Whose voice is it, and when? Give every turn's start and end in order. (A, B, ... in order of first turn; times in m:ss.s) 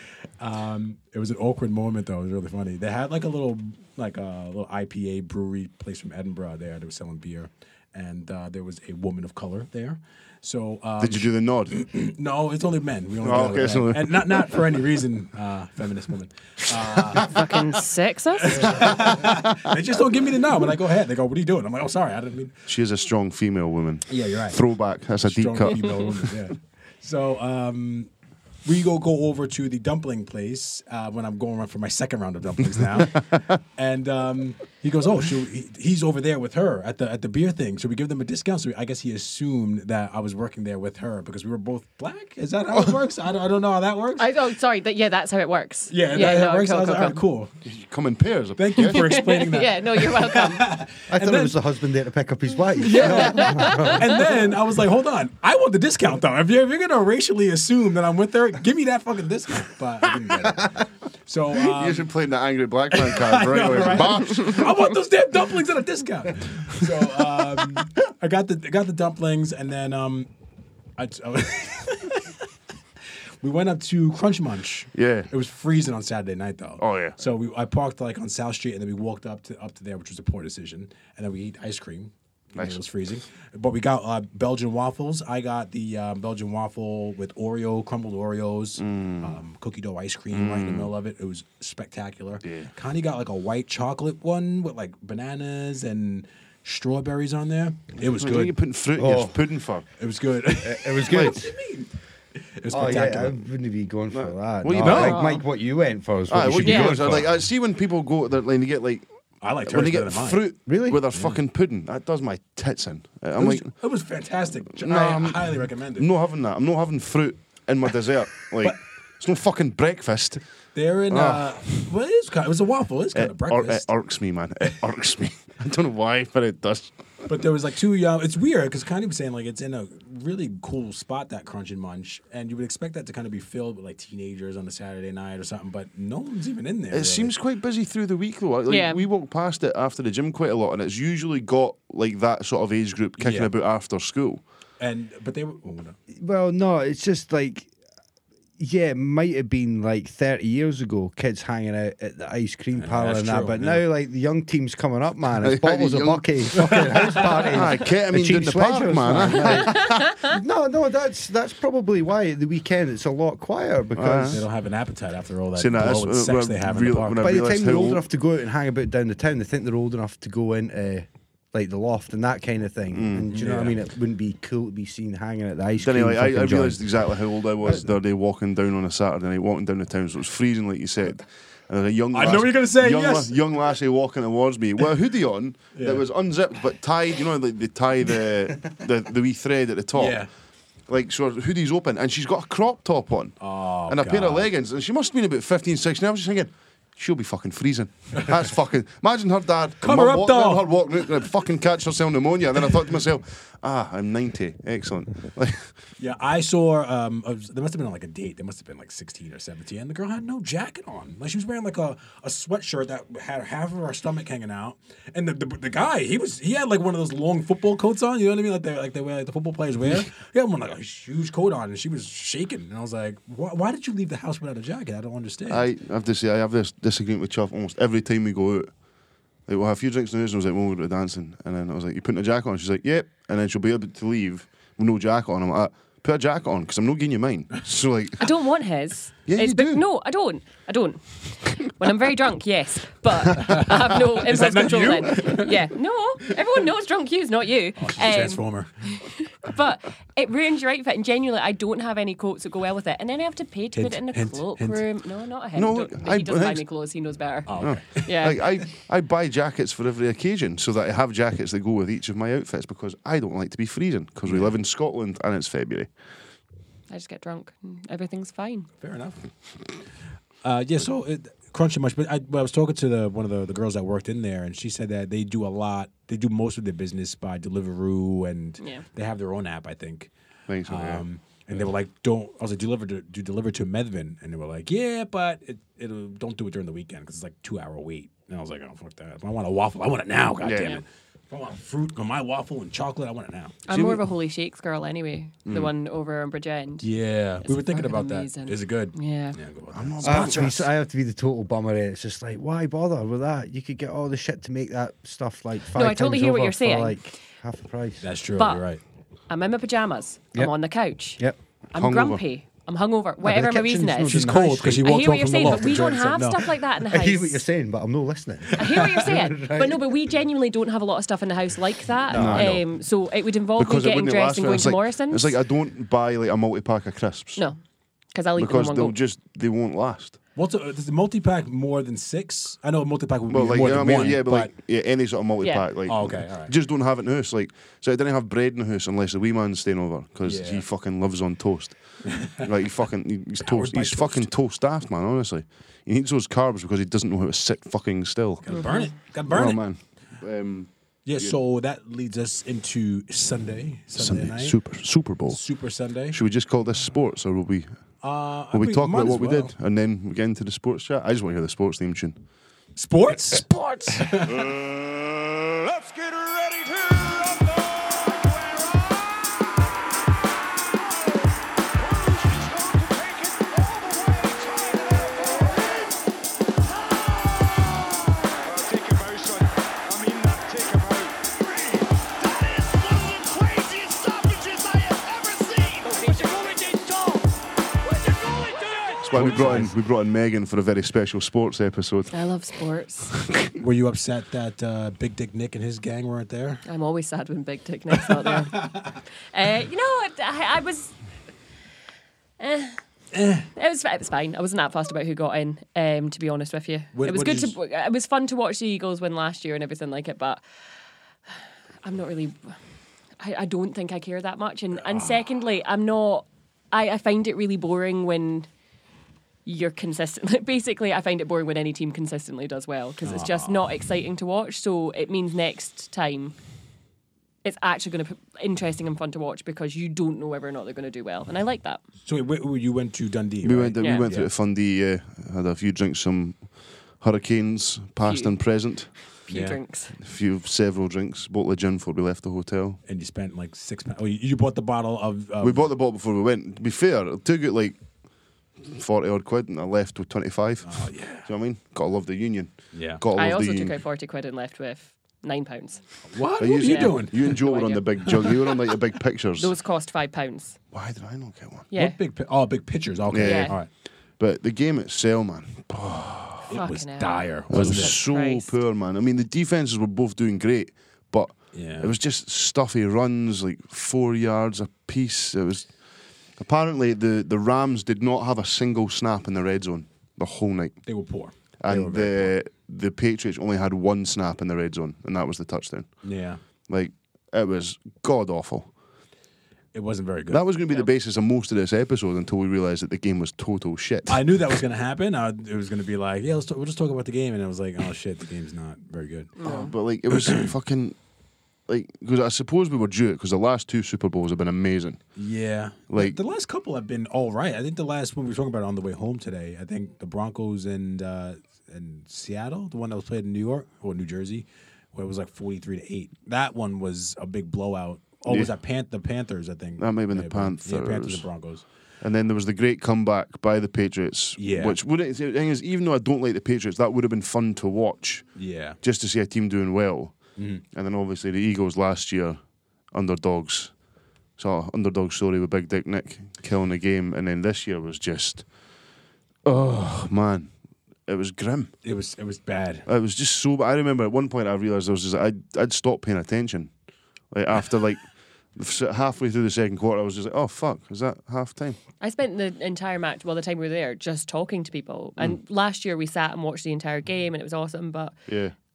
0:00.4-0:17.3 A
0:11.0-0:11.7 B
0:13.2-0:14.6 B
0:17.2-0:18.9 C
0:18.4-0:22.6 A
0:18.6-0:19.7 B
0:22.7-0:26.3 B
0:24.1-0:24.6 A
0:25.2-0:28.1 A
0:28.6-0:44.3 A
0:32.9-0:33.5 B
0:44.2-0:47.2 C
0:45.9-0:47.5 A
0:47.6-0:49.1 B
0:48.6-0:51.6 A
0:48.8-0:50.7 C
0:51.1-0:54.3 D
0:52.8-1:02.1 A
0:52.9-0:54.0 C
1:01.5-1:04.9 B
1:02.9-1:10.3 A
1:11.0-1:12.4 A
1:13.4-1:38.5 A
1:14.9-1:15.3 B
1:16.8-1:17.2 B
1:22.5-1:22.8 B
1:28.8-1:29.4 B
1:30.3-1:30.9 B
1:32.4-1:32.7 B
1:38.0-1:39.8 B
1:39.0-1:39.4 D
1:40.0-1:43.4 A
1:40.6-1:41.5 D
1:42.7-1:47.3 D
1:44.1-1:45.2 B
1:44.8-1:45.2 A
1:44.9-1:45.4 C
1:46.3-1:49.0 B
1:46.6-1:46.9 C
1:49.4-1:50.4 A
1:49.6-1:53.7 B
1:50.7-1:51.0 D
1:51.1-1:51.4 A
1:53.4-1:56.1 A
1:54.8-2:00.4 B
2:00.7-2:03.9 A
2:01.1-2:01.8 B
2:03.1-2:06.9 B
2:07.2-2:17.3 A
2:16.9-2:24.4 B
2:18.7-2:19.0 C
2:23.2-2:23.5 A
2:24.8-2:26.0 A
2:26.1-2:27.7 D
2:28.6-2:44.4 D
2:32.8-2:33.8 A
2:35.4-2:40.1 B
2:43.9-2:44.4 B
2:44.3-2:47.3 A
2:45.5-2:48.0 B
2:47.2-2:56.9 D
2:52.9-2:53.3 B
2:53.3-2:53.8 A
2:55.8-3:10.2 B
3:02.1-3:03.4 A
3:05.7-3:06.0 A
3:09.9-3:10.3 A
3:10.9-3:25.7 B
3:13.4-3:14.5 A
3:19.8-3:20.7 A
3:26.0-3:45.7 A
3:45.5-3:48.7 B
3:49.5-3:58.3 B
3:58.2-4:18.4 C
3:59.2-3:59.8 B
4:03.4-4:05.6 A
4:07.8-4:09.0 A
4:13.7-4:14.8 A
4:15.5-4:16.6 B
4:17.4-4:18.3 A
4:17.6-4:25.9 B
4:24.2-4:24.5 A
4:26.9-4:28.7 C
4:28.8-4:29.2 A
4:30.4-4:40.1 A
4:40.5-4:41.0 B
4:40.7-4:53.6 A
4:50.4-4:50.8 B
4:53.6-4:56.9 C
4:53.7-4:54.0 B
4:55.4-4:55.7 B
4:56.8-5:00.4 A
4:57.4-4:59.4 C
4:59.7-5:00.7 B
5:00.0-5:08.0 D
5:05.7-5:07.2 C
5:08.0-5:08.8 A
5:08.4-5:08.6 C
5:09.3-5:11.2 C
5:11.7-5:14.3 C
5:11.7-5:12.2 B
5:13.2-5:14.9 D
5:14.1-5:16.5 A
5:14.8-5:17.4 C
5:15.4-5:15.8 D
5:16.9-5:20.1 D
5:18.6-5:25.3 C
5:22.1-5:22.6 D
5:22.1-5:22.7 B
5:23.6-5:27.4 B
5:28.1-5:29.0 C
5:28.4-5:30.2 B
5:30.4-5:34.5 A
5:33.3-5:48.4 B
5:35.8-5:36.5 A
5:40.2-5:40.6 A
5:42.0-5:42.5 A
5:43.4-5:44.3 A
5:48.4-5:49.6 A
5:48.5-5:48.9 C
5:49.3-5:51.4 B
5:51.0-5:54.6 A
5:54.0-5:55.4 B
5:55.3-5:56.2 A
5:56.1-5:57.7 B
5:58.0-5:59.5 A
5:58.5-6:02.2 B
6:02.8-6:04.5 A
6:04.2-6:09.7 E
6:10.6-6:16.0 E
6:16.6-6:29.4 E
6:29.0-6:32.1 B
6:29.1-6:29.7 A
6:32.1-6:33.2 C
6:33.2-6:33.5 B
6:33.6-6:36.6 A
6:36.6-6:41.0 C
6:38.0-6:39.0 A
6:42.4-6:42.8 C
6:43.1-6:43.5 A
6:43.5-6:50.4 C
6:46.9-6:47.5 A
6:51.8-6:52.5 C
6:53.2-6:58.5 C
6:54.9-6:55.2 A
6:59.4-7:06.4 C
7:03.0-7:03.6 A
7:07.4-7:11.8 C
7:12.0-7:14.3 A
7:13.4-7:18.9 B
7:13.8-7:14.0 C
7:18.0-7:18.3 C
7:19.2-7:19.9 C
7:19.3-7:19.6 A
7:20.0-7:22.8 B
7:22.8-7:25.7 A
7:25.4-7:27.8 B
7:28.6-7:33.8 B
7:30.6-7:31.3 A
7:32.7-7:33.0 A
7:33.1-7:35.8 C
7:36.1-7:37.4 A
7:36.4-7:39.5 B
7:36.4-7:38.6 C
7:39.4-7:40.6 C
7:40.7-7:41.7 B
7:41.7-7:43.7 A
7:43.1-7:46.5 B
7:43.2-7:43.5 C
7:46.4-7:48.0 A
7:46.5-7:48.5 C
7:47.5-7:55.7 B
7:51.5-7:51.9 A
7:56.4-8:00.8 B
8:00.8-8:02.3 A
8:01.6-8:05.9 B
8:06.0-8:06.4 A
8:06.7-8:08.7 B
8:09.7-8:10.4 A
8:10.3-8:14.2 B
8:14.1-8:19.4 A
8:19.4-8:19.7 C
8:19.4-8:21.0 B
8:20.1-8:20.5 A
8:21.7-8:25.0 B
8:25.2-8:41.6 A
8:25.9-8:26.2 B
8:38.3-8:38.5 B
8:39.8-8:41.3 B
8:42.0-8:48.3 B
8:44.4-8:44.8 A
8:48.4-8:48.8 A
8:48.8-8:50.2 B
8:50.4-8:50.6 A
8:50.7-8:52.4 B
8:52.9-8:53.7 B
8:54.4-8:58.4 B
8:59.4-9:00.5 B
9:01.0-9:01.7 B
9:01.8-9:02.9 A
9:02.8-9:06.7 B
9:07.3-9:11.8 B
9:12.0-9:18.1 C
9:18.3-9:18.5 B